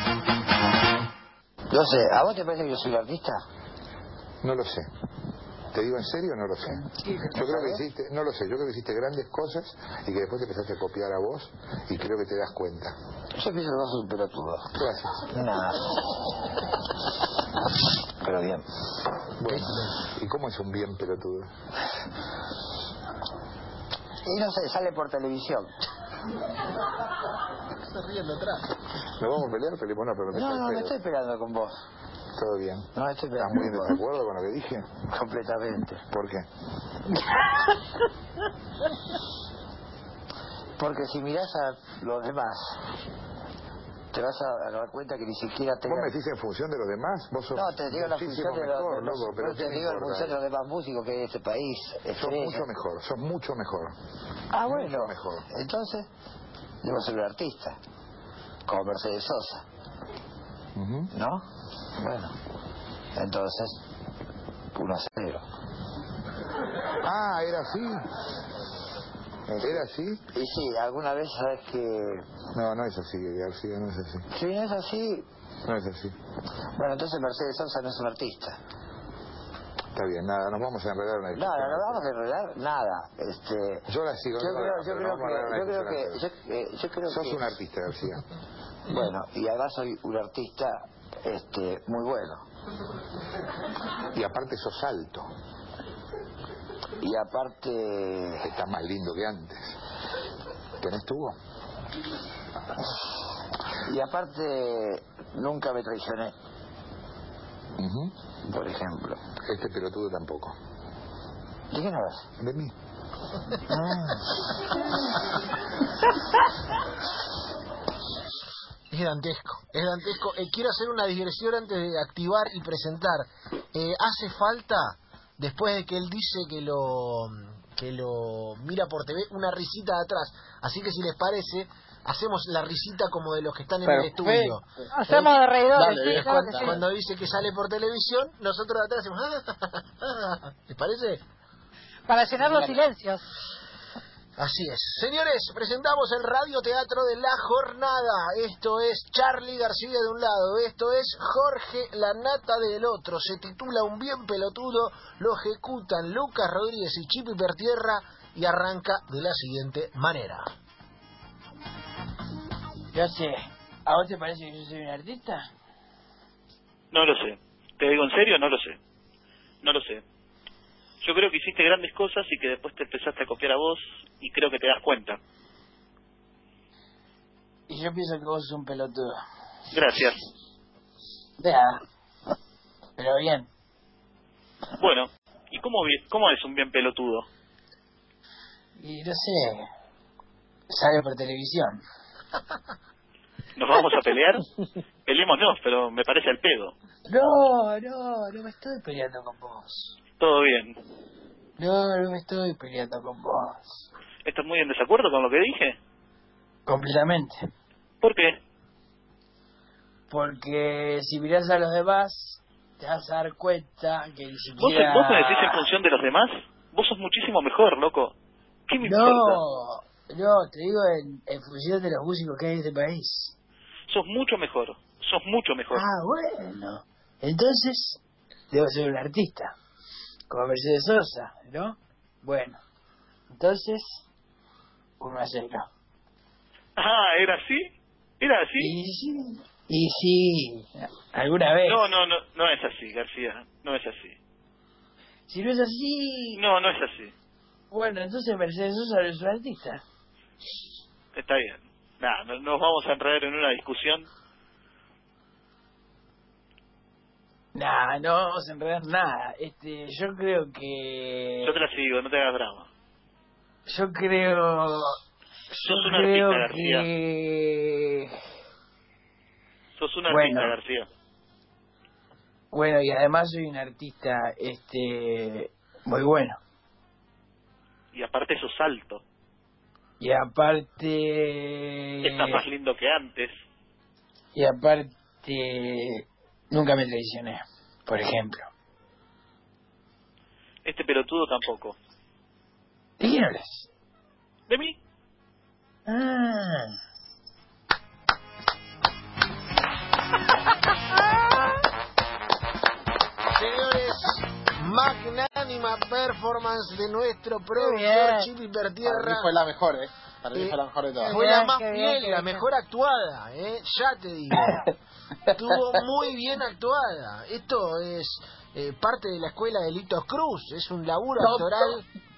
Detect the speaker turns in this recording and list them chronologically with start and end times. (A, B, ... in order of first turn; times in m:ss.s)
0:01.7-0:03.4 A
0:04.4-0:04.9 B
0:05.7-0:13.0 B
0:06.8-0:07.4 C
0:07.4-0:07.8 A
0:13.3-0:16.0 A
0:14.7-0:15.3 B
0:18.2-0:18.7 A
0:19.4-0:21.5 B
0:24.2-0:25.7 A
0:27.9-0:28.6 D
0:29.2-0:31.0 B
0:30.3-0:31.8 A
0:32.3-0:35.0 B
0:32.9-0:34.0 A
0:35.1-0:36.1 A
0:36.1-0:36.5 B
0:40.8-0:42.8 A
0:44.1-0:46.1 A
0:45.8-0:50.4 B
0:47.5-0:52.7 A
0:52.2-0:54.0 B
0:54.5-0:56.1 A
0:54.6-0:55.5 B
0:56.8-0:57.8 A
0:58.7-0:59.6 A
1:00.8-1:01.1 B
1:01.1-1:02.4 A
1:03.2-1:03.8 A
1:04.7-1:05.4 A
1:07.0-1:08.0 B
1:09.5-1:10.2 B
1:10.3-1:12.4 A
1:12.5-1:14.3 B
1:14.3-1:15.3 A
1:15.6-1:16.2 B
1:16.8-1:18.6 A
1:19.9-1:22.0 B
1:21.4-1:27.5 A
1:23.9-1:26.3 B
1:27.0-1:28.3 B
1:28.9-1:32.5 A
1:34.1-1:35.3 B
1:37.0-1:38.6 A
1:38.4-1:39.8 B
1:40.8-1:41.4 B
1:43.9-1:46.4 A
1:47.8-1:48.1 B
1:48.4-1:49.3 A
1:49.4-1:50.6 B
1:51.7-1:52.4 A
1:52.4-1:52.7 B
1:53.7-1:54.3 A
1:58.9-2:14.6 D
2:13.8-2:16.8 E
2:14.9-2:16.8 F
2:16.1-2:21.2 D
2:22.1-2:23.2 F
2:22.4-2:22.8 E
2:24.4-2:40.5 D
2:42.9-2:45.5 C
2:46.9-2:48.8 G
2:49.6-2:50.0 G
2:51.0-2:55.2 G
2:57.7-2:59.2 C
2:59.7-3:00.2 G
3:01.4-3:01.8 C
3:03.0-3:03.5 C
3:04.8-3:07.3 G
3:08.8-3:09.7 C
3:10.7-3:11.8 C
3:13.6-3:14.4 G
3:15.1-3:16.7 G
3:17.1-3:20.0 C
3:20.2-3:20.8 G
3:21.6-3:23.8 C
3:24.2-3:25.8 G
3:26.7-3:27.4 C
3:28.0-3:28.4 G
3:30.1-3:35.7 C
3:34.6-3:38.1 G
3:38.7-3:39.4 G
3:38.8-3:43.3 C
3:43.9-3:45.8 G
3:45.7-3:49.6 C
3:50.3-3:52.6 C
3:53.3-3:54.0 C
3:55.0-3:55.7 C
3:56.8-3:57.7 G
3:58.2-3:58.8 G
3:58.6-4:01.8 C
4:01.6-4:04.2 G
4:05.3-4:06.4 C
4:06.3-4:07.1 G
4:07.7-4:09.8 C
4:11.2-4:14.1 G
4:17.6-4:21.6 C
4:21.4-4:22.7 G
4:23.7-4:25.0 C
4:25.5-4:28.2 C
4:25.6-4:26.9 G
4:29.8-4:30.9 G
4:30.1-4:30.6 C
4:32.5-4:36.4 C
4:37.9-4:39.0 G
4:40.0-4:42.4 C
4:42.0-4:43.4 G
4:44.4-4:48.5 C
4:50.6-4:51.8 G
4:53.0-4:53.7 C
4:54.5-4:54.8 G
4:55.9-4:56.8 C
5:01.1-5:01.5 F
5:03.3-5:09.3 D
5:07.5-5:08.3 F
5:08.8-5:11.2 E
5:10.3-5:14.7 D
5:11.0-5:12.4 F
5:15.3-5:21.8 D
5:21.2-5:21.6 C